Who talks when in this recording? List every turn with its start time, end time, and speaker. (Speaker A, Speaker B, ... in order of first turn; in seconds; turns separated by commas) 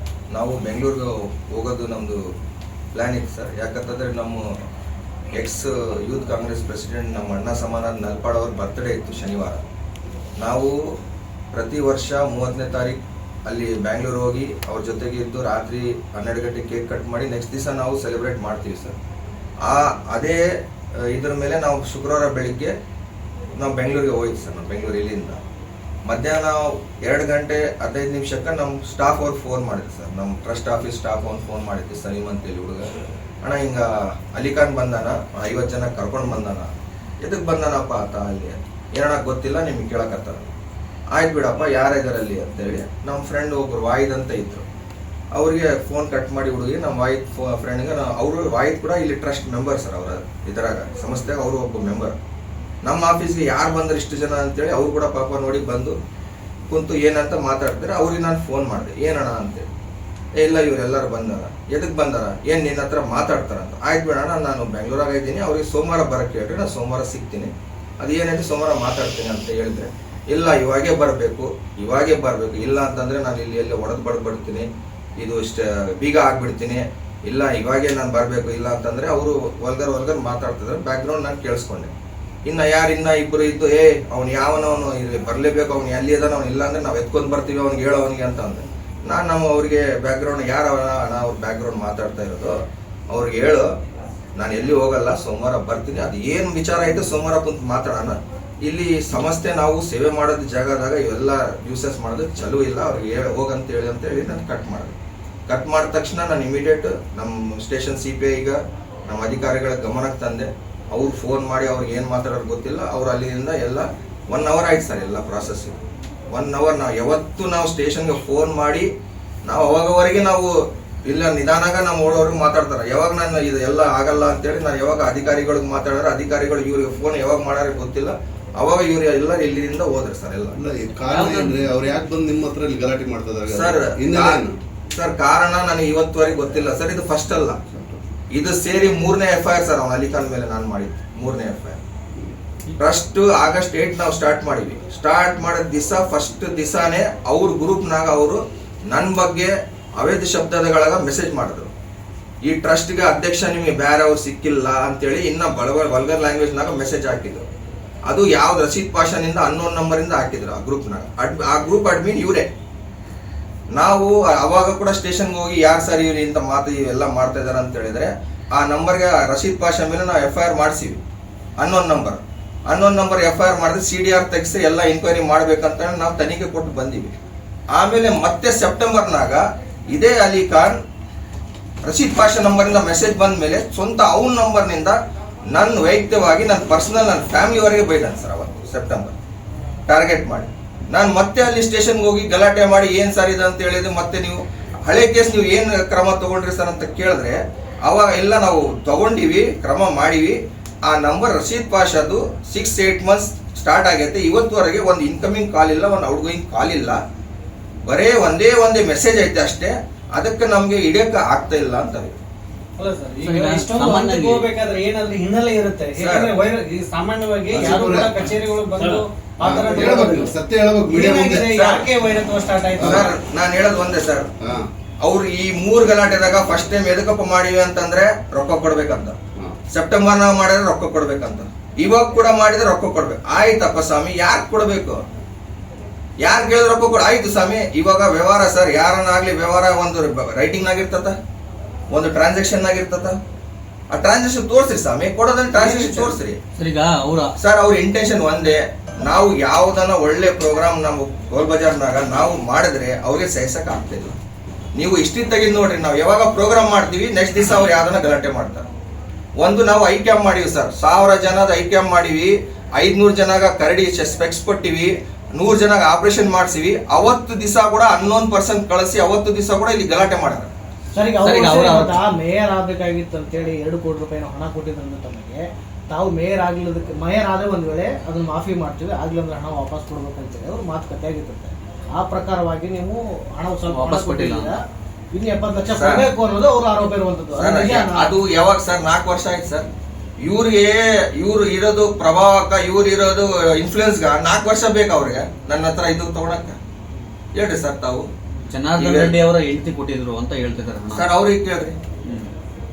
Speaker A: 0.3-2.2, Speaker A: 2.9-4.4, Speaker A: 5.3-9.6, Speaker A: 10.4-10.8, Speaker A: 11.5-19.0, Speaker A: 19.6-20.4, Speaker A: 21.1-22.7, Speaker A: 23.6-25.4, Speaker A: 26.1-32.9, Speaker A: 33.4-36.7, Speaker A: 37.2-40.5, Speaker A: 41.1-44.6, Speaker A: 45.3-52.2, Speaker A: 52.8-56.0, Speaker A: 56.7-59.7, Speaker A: 60.4-81.9, Speaker A: 82.5-92.6, Speaker A: 93.1-93.7, Speaker A: 94.4-105.0, Speaker A: 105.5-115.8, Speaker A: 116.3-118.9, Speaker A: 119.5-130.6, Speaker B: 130.6-134.6, Speaker C: 131.0-131.7, Speaker A: 133.5-134.4, Speaker A: 134.9-137.6, Speaker B: 137.7-138.0, Speaker A: 138.3-141.8, Speaker A: 142.8-151.7, Speaker A: 152.4-157.5, Speaker A: 158.1-162.5, Speaker A: 163.7-171.0, Speaker A: 171.6-177.2, Speaker A: 177.7-180.8, Speaker A: 181.8-185.0, Speaker A: 185.5-189.2, Speaker A: 189.9-207.0, Speaker A: 207.9-212.2, Speaker D: 212.8-220.3, Speaker C: 213.2-214.5, Speaker A: 216.0-216.3, Speaker B: 217.5-218.2, Speaker B: 219.4-221.5, Speaker D: 220.9-223.1, Speaker A: 221.5-221.9, Speaker B: 222.8-223.1, Speaker A: 222.8-224.3, Speaker B: 224.4-224.7, Speaker A: 225.0-229.2, Speaker A: 229.7-235.0, Speaker A: 236.2-241.2, Speaker A: 241.9-243.2, Speaker A: 243.9-246.4, Speaker D: 245.5-246.1, Speaker C: 246.6-247.3, Speaker A: 247.4-254.2, Speaker A: 254.8-258.7, Speaker A: 259.4-270.5, Speaker D: 270.9-284.6, Speaker C: 271.2-272.0, Speaker C: 283.7-284.6, Speaker D: 285.1-288.1, Speaker A: 285.8-286.1, Speaker A: 287.4-289.7, Speaker A: 290.2-296.6, Speaker A: 297.4-298.1, Speaker C: 298.5-301.1, Speaker A: 298.8-299.2, Speaker A: 300.9-301.8, Speaker C: 302.0-302.3